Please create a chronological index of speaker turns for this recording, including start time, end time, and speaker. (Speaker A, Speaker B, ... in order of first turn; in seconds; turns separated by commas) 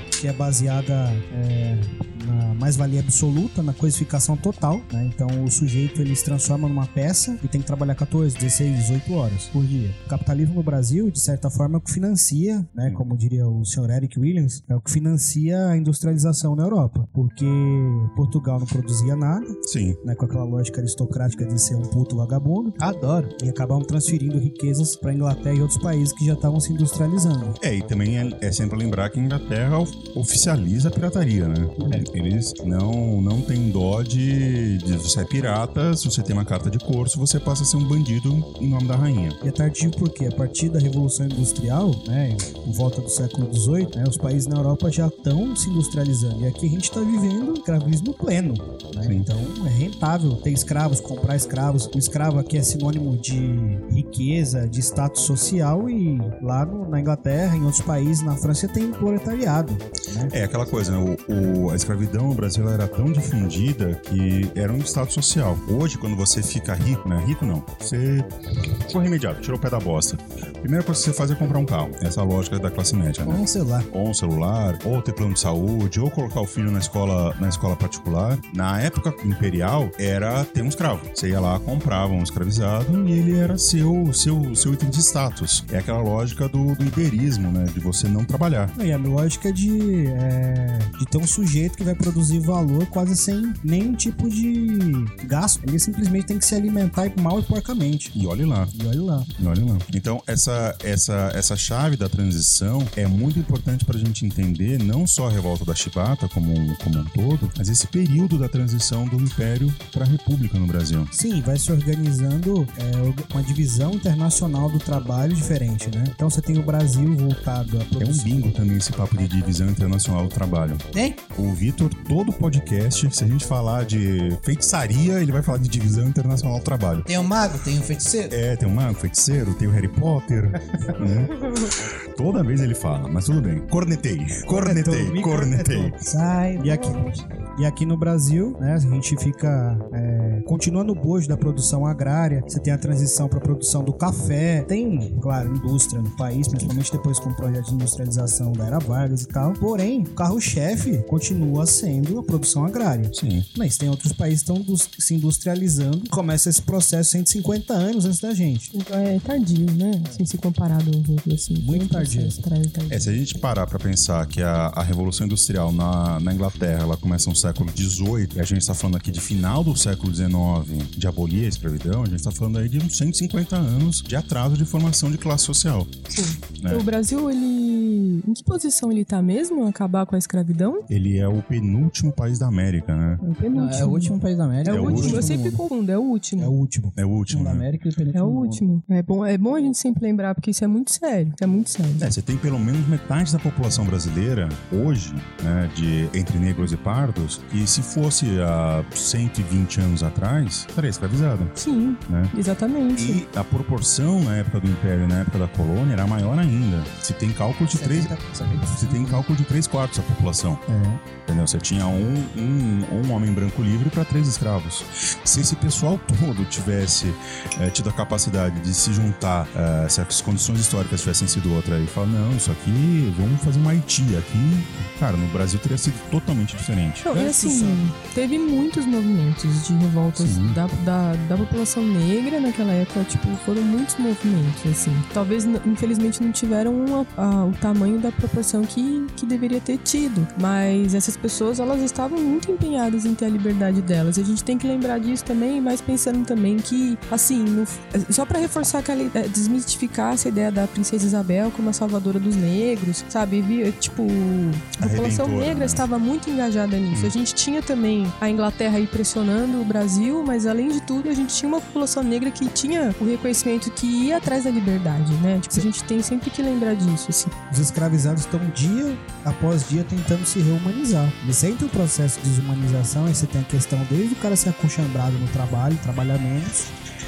Speaker A: 0.2-22.8, Speaker B: 19.6-20.0, Speaker C: 22.8-23.3, Speaker A: 23.4-27.6, Speaker B: 27.6-39.4, Speaker A: 39.4-60.3, Speaker B: 49.0-49.3, Speaker B: 60.3-68.3, Speaker B: 68.9-88.7, Speaker C: 73.2-73.9, Speaker A: 88.7-98.2, Speaker B: 98.1-98.7, Speaker A: 98.7-99.3, Speaker B: 99.4-111.1, Speaker A: 111.1-118.5, Speaker B: 118.0-127.2, Speaker C: 120.9-121.2, Speaker C: 127.0-128.3, Speaker B: 128.3-135.9, Speaker A: 134.4-158.7, Speaker D: 136.6-137.2, Speaker B: 153.1-153.5, Speaker D: 158.7-163.1, Speaker A: 161.6-162.4, Speaker B: 162.9-176.0, Speaker D: 176.1-180.8, Speaker B: 176.6-176.9, Speaker B: 180.9-183.2, Speaker D: 183.2-186.5, Speaker C: 183.5-185.6, Speaker B: 184.7-185.3, Speaker A: 186.4-187.0, Speaker B: 186.9-187.7, Speaker C: 187.3-188.6, Speaker D: 188.1-192.1, Speaker B: 192.0-201.5, Speaker D: 201.6-203.2, Speaker B: 202.1-202.3, Speaker B: 202.9-208.1, Speaker C: 207.7-209.2, Speaker B: 208.6-210.6, Speaker A: 210.7-211.0, Speaker B: 211.2-227.1, Speaker D: 227.0-267.3, Speaker A: 227.1-227.8, Speaker B: 230.1-230.6, Speaker B: 254.8-255.8, Speaker B: 256.9-257.1, Speaker A: 267.5-276.7